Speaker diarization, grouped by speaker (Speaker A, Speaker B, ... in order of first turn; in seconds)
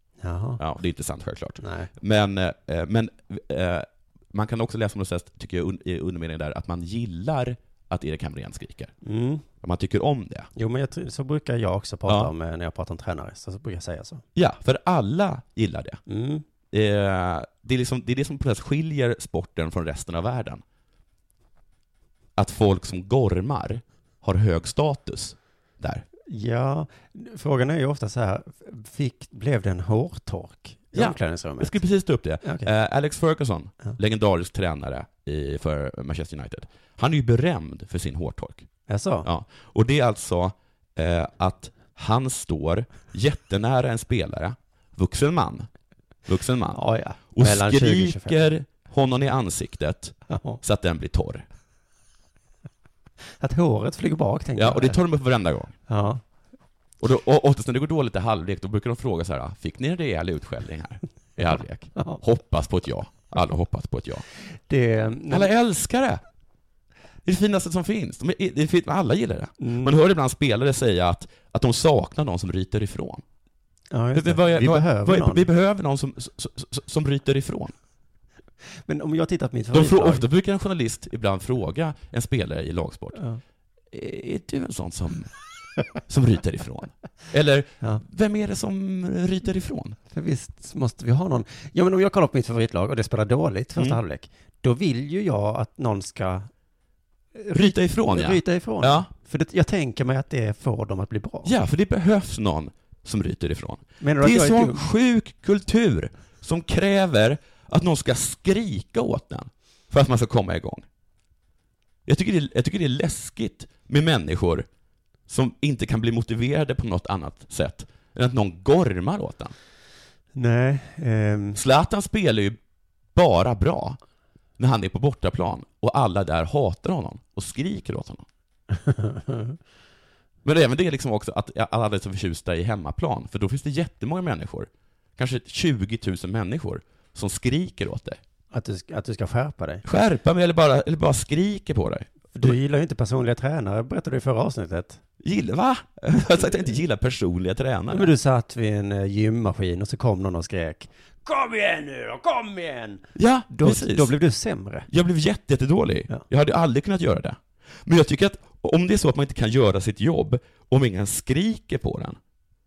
Speaker A: 0.2-0.6, 1.6-1.9, 9.0-9.4, 10.6-14.2, 16.1-16.4, 26.3-31.8, 32.4-32.7, 38.9-39.3, 46.7-48.4, 50.3-50.6, 53.4-55.0, 55.9-56.2, 61.9-62.2, 64.7-65.5, 69.6-69.9, 73.9-75.4, 78.8-80.2, 83.1-83.4, 90.1-96.5, 97.3-101.5, 104.0-104.8, 120.3-121.6, 128.8-129.6, 138.5-139.8, 142.3-145.0, 147.9-154.9
Speaker B: 0.6-8.9, 9.6-10.5, 14.3-16.0, 16.7-20.6, 22.4-26.0, 30.9-38.7, 39.2-45.7, 46.3-46.8, 47.3-51.5, 54.5-55.8, 57.0-64.2, 65.3-66.2, 67.2-73.2, 74.1-77.7, 79.7-83.2, 83.9-85.3, 86.0-90.0, 97.5-99.1, 101.4-110.8, 112.0-114.7, 115.3-119.5, 121.5-122.6, 123.1-124.0, 124.6-128.2, 130.4-138.2, 139.8-142.6, 145.2-148.1, 153.2-154.1, 154.9-162.2